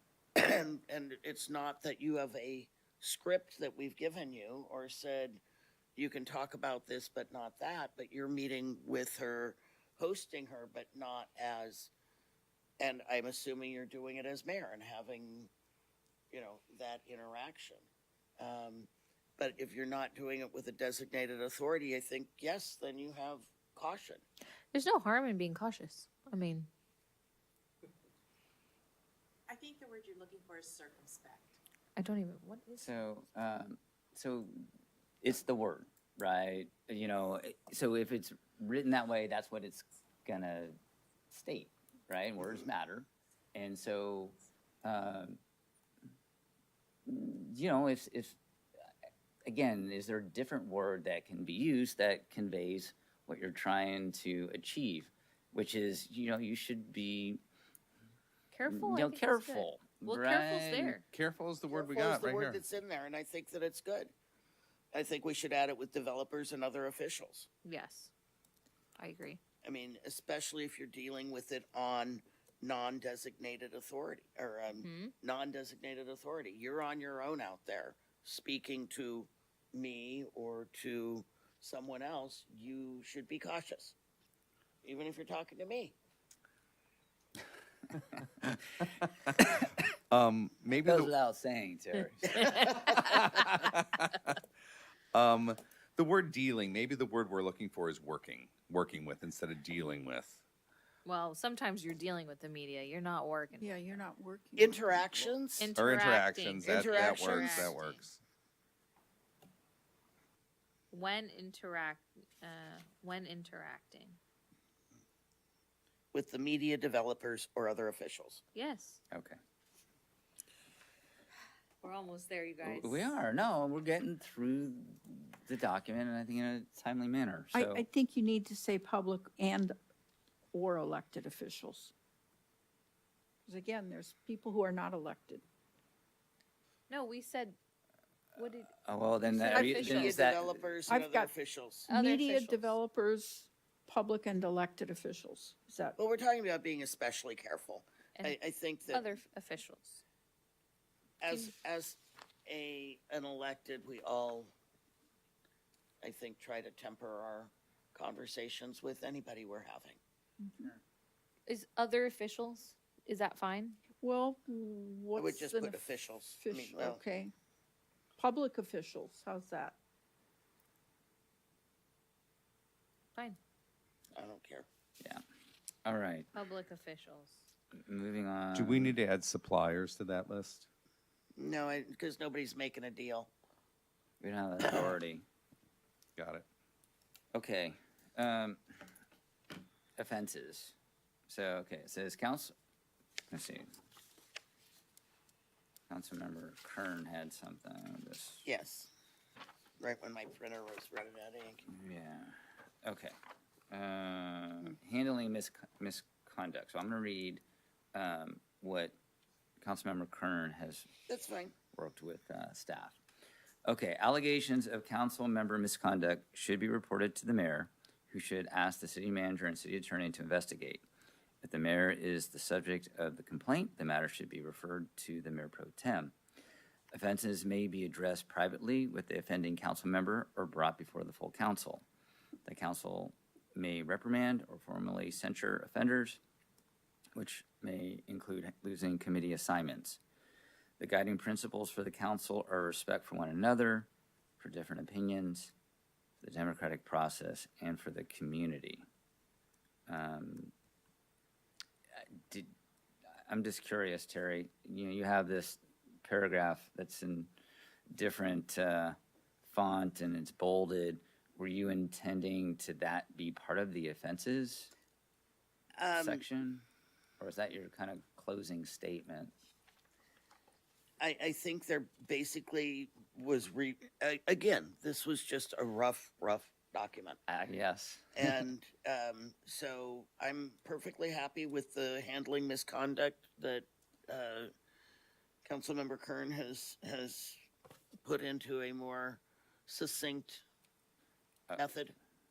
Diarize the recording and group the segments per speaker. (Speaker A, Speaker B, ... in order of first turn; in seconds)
Speaker A: 0.4-5.4, 6.0-11.9, 12.8-15.5, 16.3-17.8, 18.4-24.2, 61.7-64.1, 64.9-67.5, 69.6-84.0, 84.8-86.0, 104.6-105.7, 106.7-107.8, 116.1-118.4, 139.5-141.9, 146.0-149.2, 151.2-154.5, 156.0-160.0, 165.2-167.0, 174.2-174.7, 181.4-183.3, 198.4-198.9, 199.8-201.7, 211.1-211.5, 265.8-266.2, 271.0-277.2, 278.2-284.5, 285.4-287.4, 288.0-290.4, 291.6-291.9
Speaker B: 24.7-26.7, 32.0-32.9, 58.5-61.0, 67.6-68.1, 69.0-69.4, 74.7-75.1, 101.0-104.0, 105.6-108.0, 110.9-114.2, 118.5-119.0, 121.8-123.1, 136.9-137.6, 138.4-140.2, 141.9-142.8, 148.9-150.0, 151.3-151.5, 161.5-163.8, 176.3-177.4
Speaker C: 29.5-31.6
Speaker D: 32.8-34.7, 35.2-40.8, 41.3-45.4, 47.1-48.4, 49.5-57.4, 58.7-61.0, 90.8-92.7, 119.1-119.4, 122.6-127.8, 138.8-140.7, 175.8-176.3, 177.8-179.0, 184.2-185.2, 187.3-188.8, 190.0-190.8, 191.3-192.5, 193.3-193.7, 195.9-198.4, 201.7-203.2, 203.7-207.4, 207.9-208.9, 209.6-210.9, 211.7-213.0, 213.7-220.8, 221.4-226.1, 226.9-231.8, 232.5-236.2, 237.2-240.0, 240.8-243.9, 244.4-245.5, 246.2-248.8, 249.9-250.5, 252.2-252.5, 253.3-257.3, 257.9-264.7, 265.9-266.6, 267.2-269.3, 277.3-278.4
Speaker E: 61.2-62.6, 90.1-91.1, 93.0-93.8, 95.1-100.4, 105.8-108.2, 178.6-180.6
Speaker F: 103.6-105.3, 127.5-129.8, 130.5-131.9, 133.5-135.4, 140.9-141.3, 141.9-146.0, 160.4-160.7, 164.0-165.8, 166.4-167.3, 168.2-169.8